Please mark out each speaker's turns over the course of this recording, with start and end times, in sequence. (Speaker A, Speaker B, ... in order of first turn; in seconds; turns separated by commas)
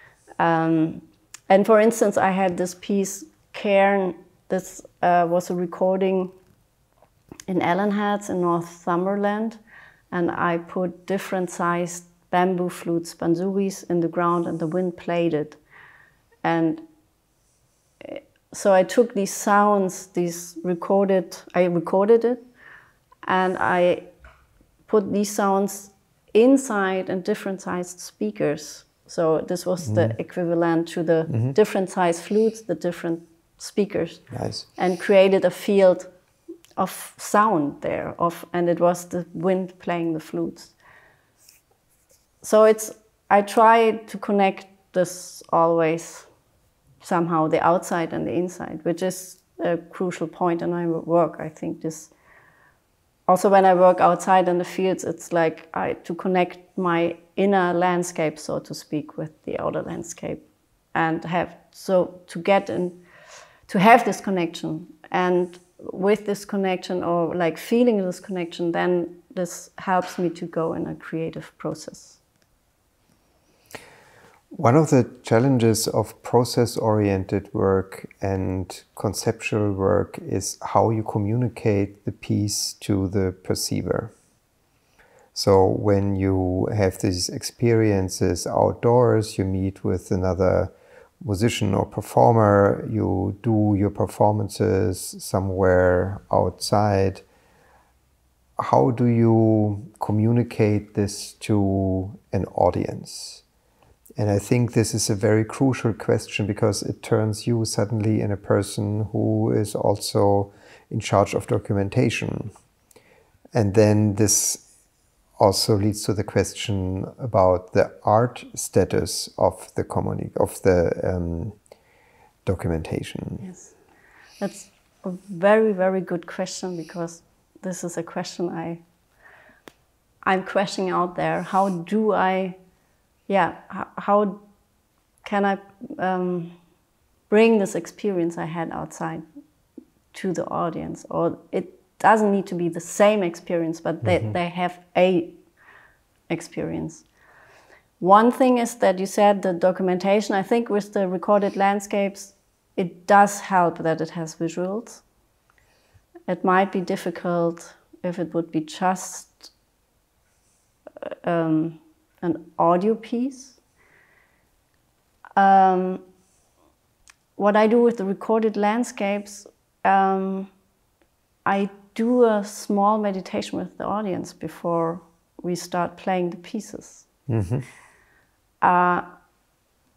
Speaker A: 0.4-6.3, Speaker A: 7.5-15.6, Speaker A: 16.4-16.8, Speaker A: 18.0-22.5, Speaker A: 23.2-24.1, Speaker A: 24.9-36.1, Speaker B: 29.9-30.1, Speaker B: 31.3-31.6, Speaker B: 34.3-34.7, Speaker A: 36.8-40.8, Speaker A: 42.4-46.3, Speaker A: 47.0-52.1, Speaker A: 53.3-63.0, Speaker A: 63.7-72.2, Speaker B: 74.5-84.1, Speaker B: 85.3-97.2, Speaker B: 98.6-103.4, Speaker B: 104.2-112.5, Speaker B: 113.5-114.7, Speaker B: 115.4-121.6, Speaker B: 122.5-123.5, Speaker A: 123.4-123.7, Speaker A: 124.4-128.8, Speaker A: 130.2-132.6, Speaker A: 133.3-134.4, Speaker A: 135.2-136.6, Speaker A: 137.3-139.2, Speaker A: 140.1-145.4, Speaker B: 144.1-144.3, Speaker A: 146.3-147.1, Speaker A: 148.0-155.0, Speaker A: 156.3-159.5, Speaker A: 161.0-163.6, Speaker A: 165.4-166.0, Speaker A: 167.4-170.5, Speaker A: 171.4-177.1, Speaker B: 177.3-177.7, Speaker A: 178.6-179.1